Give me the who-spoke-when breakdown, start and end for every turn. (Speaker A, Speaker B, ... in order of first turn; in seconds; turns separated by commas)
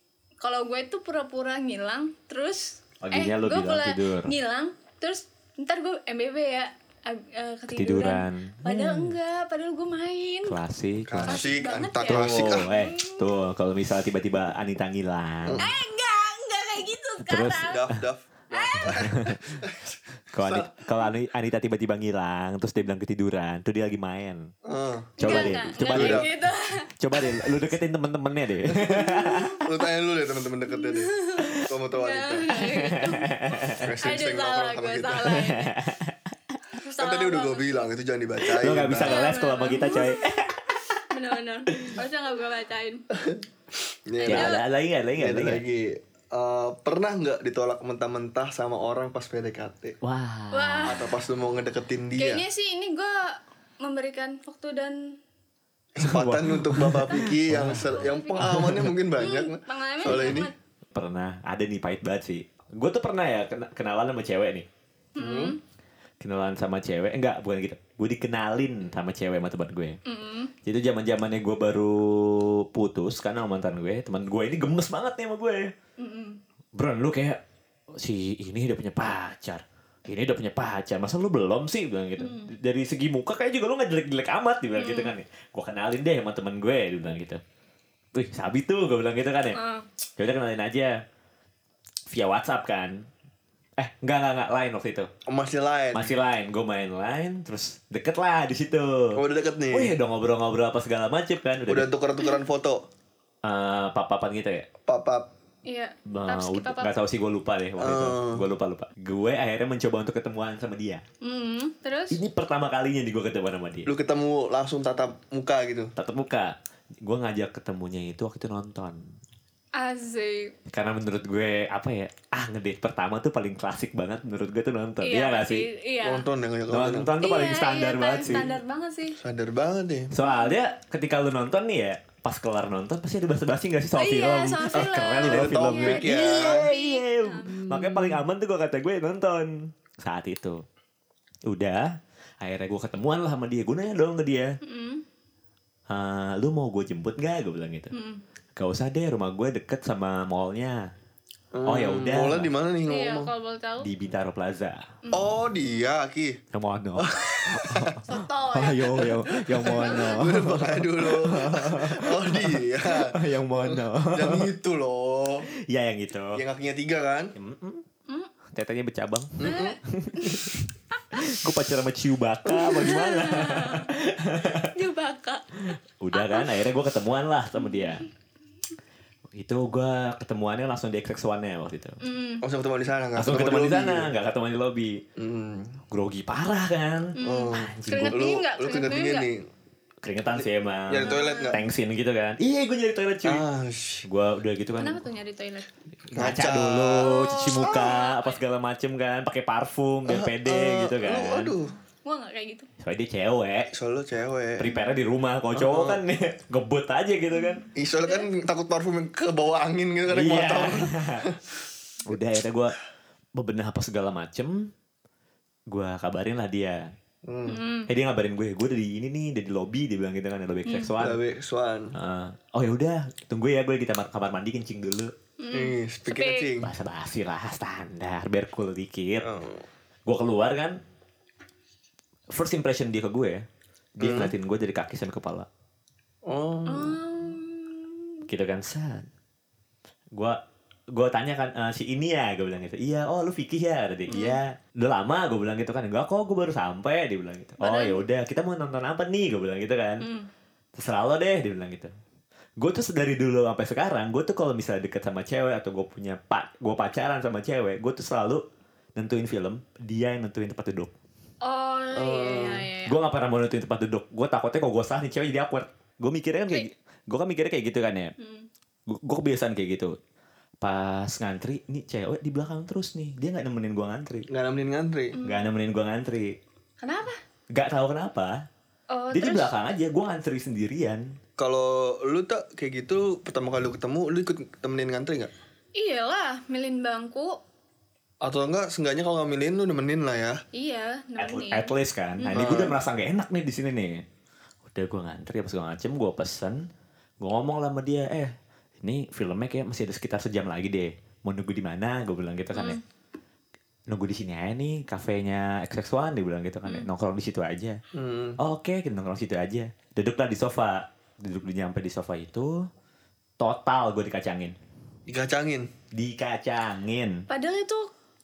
Speaker A: 0.4-10.6, Speaker B: 3.0-4.3, Speaker B: 7.7-9.2, Speaker B: 10.5-11.5, Speaker C: 11.1-12.7, Speaker A: 11.3-13.4, Speaker B: 12.1-15.7, Speaker C: 15.4-15.7, Speaker A: 15.6-17.9, Speaker B: 17.3-18.0, Speaker C: 17.7-20.8, Speaker A: 18.5-19.1, Speaker B: 18.8-19.6, Speaker B: 20.3-24.5, Speaker C: 24.6-26.3, Speaker B: 25.2-26.3, Speaker A: 25.2-27.6, Speaker B: 27.0-29.6, Speaker C: 28.6-32.5, Speaker A: 30.7-35.7, Speaker B: 32.5-33.9, Speaker C: 33.6-35.4, Speaker B: 35.3-36.6, Speaker A: 36.7-37.9, Speaker C: 37.0-39.2, Speaker B: 38.5-40.9, Speaker A: 39.0-40.5, Speaker A: 41.1-43.0, Speaker C: 43.1-43.4, Speaker C: 44.1-44.6, Speaker A: 44.2-44.6, Speaker B: 44.3-45.6, Speaker C: 45.2-50.0, Speaker B: 50.0-51.1, Speaker A: 50.5-51.1, Speaker C: 50.9-52.4, Speaker A: 52.2-55.2, Speaker C: 56.0-60.5, Speaker B: 56.0-58.9, Speaker A: 57.1-60.5, Speaker B: 60.0-64.7, Speaker A: 65.2-65.6, Speaker C: 65.2-65.6, Speaker B: 66.2-70.0, Speaker A: 70.1-70.5, Speaker B: 70.7-75.7, Speaker A: 76.0-76.4, Speaker B: 76.8-87.4, Speaker A: 82.2-82.5, Speaker A: 84.8-85.2, Speaker B: 88.1-89.6, Speaker A: 89.5-89.9, Speaker B: 90.2-91.0, Speaker B: 92.1-93.1, Speaker B: 93.8-95.1, Speaker C: 95.3-96.1, Speaker B: 95.9-101.9, Speaker C: 99.2-99.9, Speaker C: 101.7-102.8, Speaker B: 103.4-104.7, Speaker C: 104.9-105.3, Speaker A: 105.7-106.9, Speaker B: 106.1-111.0, Speaker C: 107.8-108.5, Speaker A: 111.2-112.2, Speaker B: 112.1-113.9, Speaker C: 113.9-115.9, Speaker B: 116.0-119.0, Speaker A: 119.8-120.5, Speaker B: 120.7-125.7, Speaker A: 125.0-126.3, Speaker C: 126.0-127.1, Speaker B: 126.7-128.5, Speaker A: 127.2-129.2, Speaker C: 129.2-130.1, Speaker B: 130.1-140.6, Speaker A: 130.2-130.6, Speaker A: 134.0-137.6, Speaker C: 135.2-136.7, Speaker C: 137.5-138.2, Speaker B: 141.5-144.6, Speaker A: 144.6-145.0, Speaker B: 145.9-147.9, Speaker A: 147.9-148.2, Speaker B: 148.6-150.9, Speaker C: 151.5-153.3, Speaker B: 151.7-152.5, Speaker A: 152.9-153.9, Speaker B: 153.8-154.9, Speaker A: 155.0-155.3, Speaker C: 155.1-156.4, Speaker B: 156.5-164.5, Speaker C: 157.0-158.0, Speaker A: 158.1-160.3, Speaker C: 159.0-165.5, Speaker B: 165.6-166.4, Speaker C: 166.3-167.3, Speaker B: 167.4-167.8, Speaker B: 168.5-174.7, Speaker C: 169.4-169.8, Speaker A: 169.4-171.2, Speaker A: 172.6-173.9, Speaker A: 174.6-175.6, Speaker B: 176.0-178.1, Speaker A: 176.1-176.5, Speaker A: 177.6-178.1, Speaker B: 179.3-182.0, Speaker A: 182.0-182.4, Speaker C: 182.4-184.1, Speaker B: 183.2-185.0, Speaker C: 185.2-185.8, Speaker B: 185.9-188.2, Speaker A: 187.2-189.3, Speaker C: 187.2-189.5, Speaker B: 190.0-193.4, Speaker C: 190.4-191.6, Speaker A: 191.0-191.6, Speaker C: 193.2-194.1, Speaker B: 194.0-195.0, Speaker A: 194.8-195.7, Speaker B: 196.1-201.6, Speaker C: 196.2-197.9, Speaker A: 197.0-198.4, Speaker C: 200.1-201.7, Speaker A: 202.0-202.7, Speaker B: 202.8-203.7, Speaker C: 203.7-204.7, Speaker B: 204.6-207.7, Speaker C: 205.6-206.0, Speaker A: 207.3-208.3, Speaker C: 207.8-211.5, Speaker B: 210.1-211.3, Speaker B: 212.1-212.8, Speaker B: 213.4-214.7, Speaker B: 215.7-216.9, Speaker C: 217.3-217.6, Speaker A: 217.5-217.9, Speaker B: 217.9-221.2, Speaker A: 220.7-220.9, Speaker C: 221.0-222.0, Speaker B: 221.9-225.1, Speaker A: 225.4-226.5, Speaker C: 225.5-226.7, Speaker B: 226.6-229.3, Speaker C: 229.2-229.6, Speaker B: 230.1-230.8, Speaker B: 232.3-233.4, Speaker B: 234.0-235.5, Speaker C: 234.0-234.3, Speaker C: 236.2-237.0, Speaker A: 236.7-238.3, Speaker B: 238.3-239.1, Speaker B: 240.9-250.1, Speaker A: 244.1-244.4, Speaker A: 247.6-248.0, Speaker A: 250.0-250.3, Speaker B: 250.8-251.9, Speaker B: 252.6-258.4, Speaker B: 259.0-260.9, Speaker A: 261.4-263.0, Speaker C: 261.9-262.7, Speaker B: 262.9-268.1, Speaker A: 268.2-268.5, Speaker B: 268.9-269.9, Speaker B: 270.6-274.3, Speaker C: 274.3-275.2, Speaker A: 275.1-275.4, Speaker B: 275.2-276.4, Speaker A: 276.8-277.2, Speaker B: 277.5-278.4, Speaker A: 278.9-279.5, Speaker B: 279.1-281.2, Speaker C: 281.4-285.3, Speaker A: 285.8-287.4, Speaker C: 288.2-290.4, Speaker A: 290.5-292.7, Speaker B: 291.2-294.0, Speaker C: 292.3-292.7, Speaker B: 294.7-296.6, Speaker B: 297.2-302.8, Speaker A: 302.5-302.8, Speaker B: 303.9-307.8, Speaker C: 307.9-308.4, Speaker B: 308.4-312.7, Speaker B: 313.4-314.6, Speaker C: 315.1-315.7, Speaker B: 315.9-317.2, Speaker A: 317.3-317.9